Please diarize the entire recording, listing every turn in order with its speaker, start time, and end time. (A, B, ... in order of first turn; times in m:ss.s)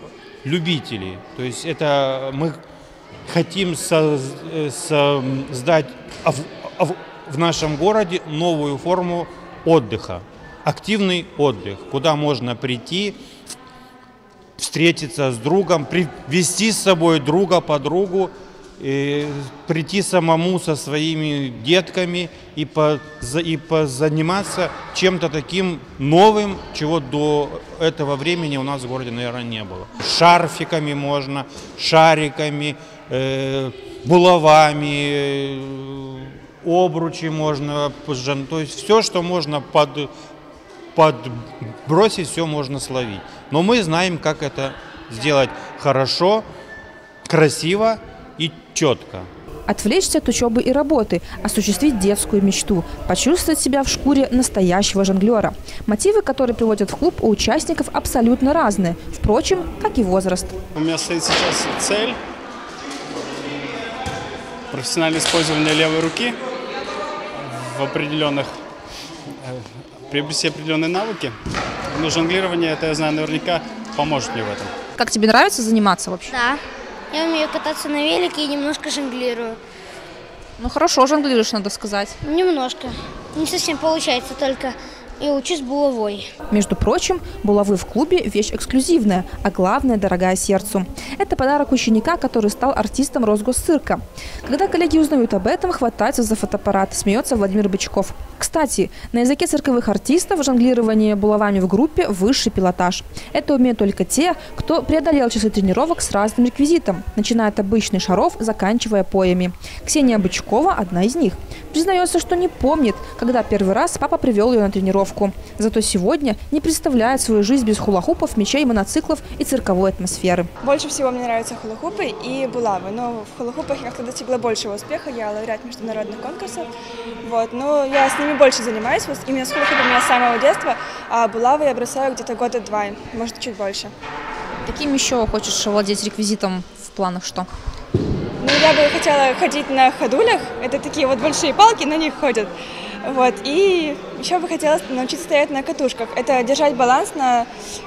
0:00.4-0:02.6 A
0:03.3-0:13.2 A
0:14.6-0:40.1 A
0:40.9-0:46.4 A
0:47.3-0:49.3 A
0:49.7-1:00.5 B
1:00.7-1:02.2 C
1:04.7-1:06.4 C
1:07.4-1:08.6 C
1:09.4-1:11.4 C
1:11.9-1:14.7 C
1:15.0-1:16.3 B
1:16.3-1:16.6 D
1:17.1-1:19.6 D
1:20.6-1:22.2 B
1:22.2-1:26.3 D
1:26.5-2:00.5 B
2:00.6-2:06.7 E
2:07.2-2:13.9 E
2:14.6-2:17.5 B
2:18.4-2:27.5 E